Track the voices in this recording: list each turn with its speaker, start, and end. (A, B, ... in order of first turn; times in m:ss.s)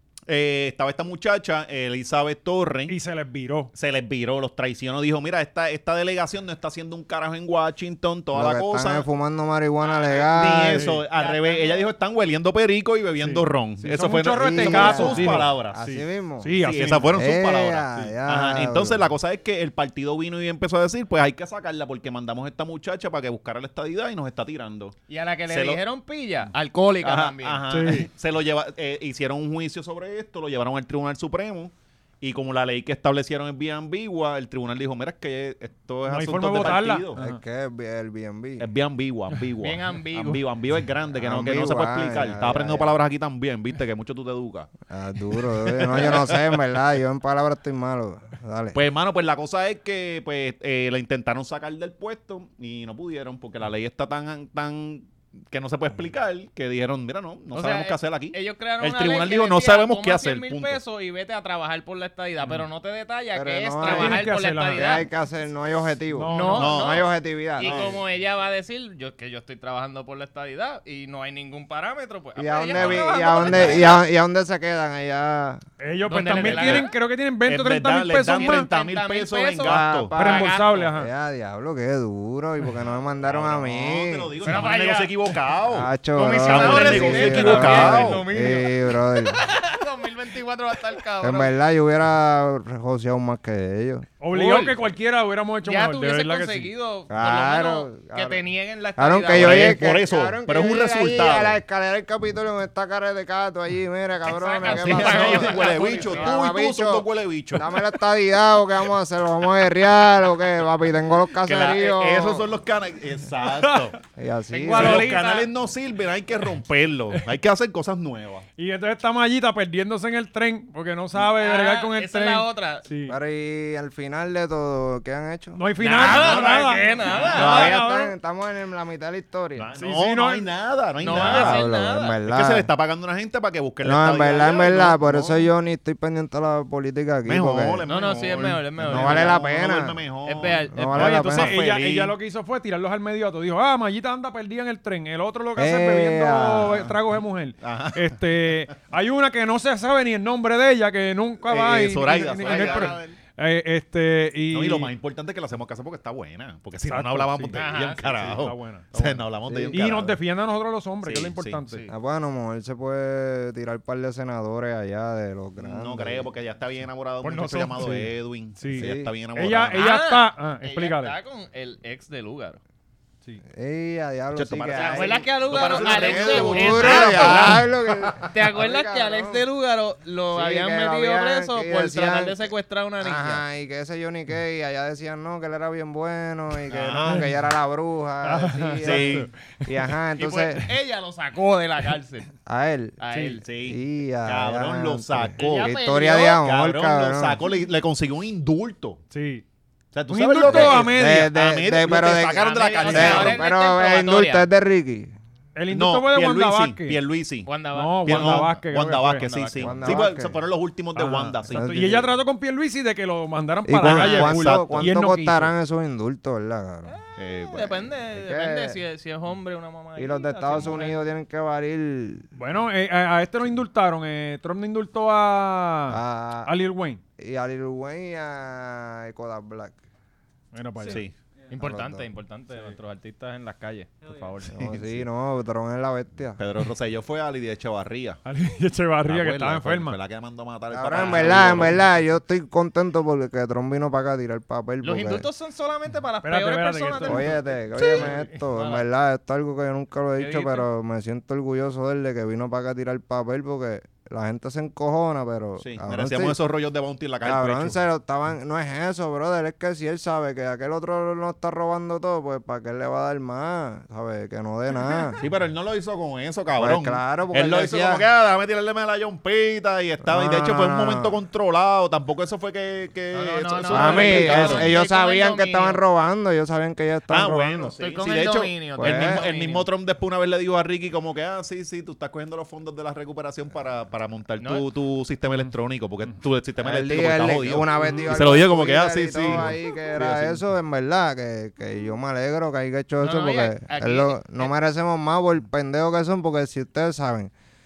0:00.3-0:03.0 A
0:02.9-0:03.7 B
0:03.7-0:09.1 A
0:08.3-0:10.9 C
0:09.8-0:11.9 D
0:10.3-0:15.8 A
0:10.7-0:11.0 B
0:13.2-0:17.2 B
0:14.4-0:16.5 C
0:16.6-0:25.0 A
0:17.1-0:19.0 C
0:25.1-0:27.6 D
0:25.5-0:25.8 A
0:27.0-0:37.2 A
0:27.7-0:28.1 B
0:36.1-0:37.4 B
0:37.2-0:38.7 C
0:38.6-0:44.7 A
0:39.6-0:40.4 D
0:41.2-0:43.0 C
0:44.9-0:48.8 C
0:45.8-0:46.4 A
0:48.7-1:00.8 A
0:57.5-1:05.1 D
1:03.3-1:07.9 C
1:03.8-1:05.0 B
1:06.1-1:06.8 B
1:06.3-1:07.1 D
1:06.5-1:07.0 A
1:07.6-1:14.0 D
1:07.6-1:08.0 A
1:12.4-1:15.6 C
1:12.8-1:14.0 A
1:15.8-1:18.7 B
1:16.1-1:16.9 D
1:16.4-1:16.9 A
1:17.5-1:20.1 A
1:18.3-1:20.9 D
1:19.6-1:24.3 C
1:20.1-1:21.1 B
1:23.2-1:25.9 A
1:24.4-1:25.2 D
1:25.7-1:29.4 C
1:26.2-1:31.5 D
1:26.4-1:28.2 A
1:31.2-1:34.1 C
1:34.2-1:36.7 B
1:34.3-1:34.8 D
1:35.6-1:39.8 D
1:37.1-1:38.4 C
1:39.0-1:52.5 C
1:39.3-1:41.6 A
1:44.3-1:46.4 D
1:44.6-1:47.7 A
1:51.4-1:54.0 A
1:53.6-1:53.9 B
1:54.2-1:55.2 C
1:54.5-1:55.5 D
1:54.7-1:58.5 A
1:58.6-2:03.2 B
2:01.3-2:02.9 D
2:03.1-2:05.6 C
2:05.6-2:08.1 B
2:05.8-2:07.6 A
2:05.9-2:07.7 D
2:07.4-2:09.7 C
2:09.6-2:11.6 A
2:09.8-2:10.5 B
2:11.0-2:12.2 D
2:11.2-2:12.7 C
2:12.3-2:15.5 A
2:13.8-2:17.8 C
2:17.2-2:22.1 A
2:17.9-2:19.4 D
2:18.8-2:20.0 C
2:20.3-2:21.6 D
2:20.7-2:21.6 C
2:21.0-2:34.9 B
2:25.6-2:26.9 C
2:27.6-2:28.5 A
2:31.4-2:33.0 A
2:32.3-2:33.2 D
2:34.5-2:40.2 A
2:36.8-2:39.2 B
2:37.5-2:38.3 D
2:39.5-2:39.8 C
2:39.7-2:41.9 B
2:41.0-2:41.6 A
2:41.9-2:46.3 C
2:45.6-2:49.8 A
2:47.2-2:51.2 B
2:48.7-2:49.1 C
2:49.7-2:52.6 D
2:53.5-2:59.4 C
2:54.4-2:58.2 A
2:54.7-2:57.6 D
2:58.3-3:03.4 D
3:00.3-3:02.5 C
3:03.0-3:10.7 C
3:06.7-3:07.3 A
3:07.1-3:07.3 B
3:08.2-3:09.3 B
3:08.8-3:09.3 A
3:10.2-3:12.3 D
3:12.5-3:13.0 C
3:13.0-3:13.4 D
3:13.4-3:15.7 A
3:13.6-3:17.4 C
3:15.4-3:16.4 D
3:16.3-3:19.0 A
3:19.1-3:19.4 B
3:19.9-3:23.4 A
3:20.1-3:21.3 B
3:20.5-3:25.2 C
3:22.0-3:24.5 D
3:22.8-3:23.4 B
3:25.6-3:27.0 B
3:25.7-3:27.5 A
3:27.5-3:28.5 D
3:27.7-3:29.2 B
3:28.0-3:32.1 A
3:29.2-3:30.0 D
3:29.6-3:30.4 C
3:31.0-3:35.5 B
3:31.5-3:32.0 C
3:33.7-3:37.0 C
3:33.8-3:34.9 A
3:36.8-3:41.0 D
3:37.2-3:37.8 A
3:38.1-3:38.8 C
3:40.0-3:42.3 C
3:42.4-3:47.0 B
3:45.9-3:46.5 C
3:47.2-3:49.8 C
3:50.5-3:51.0 B
3:50.9-3:51.1 A
3:51.5-3:54.6 D
3:51.6-3:52.0 C
3:54.5-3:56.4 C
3:54.6-3:55.0 A
3:56.4-3:58.2 A
3:58.2-4:00.0 B
3:59.1-4:01.8 A
4:00.7-4:05.3 C
4:04.8-4:08.8 D
4:06.2-4:07.4 B
4:07.1-4:16.4 C
4:10.2-4:10.7 D
4:15.6-4:17.8 A
4:17.2-4:25.2 C
4:25.2-4:34.8 A
4:26.6-4:28.0 C
4:30.0-4:31.2 C
4:33.1-4:35.8 D
4:33.7-4:37.7 C
4:37.1-4:50.4 A
4:37.8-4:39.7 D
4:38.8-4:39.2 C
4:46.6-4:57.3 C
4:47.8-4:48.2 B
4:53.0-4:54.5 D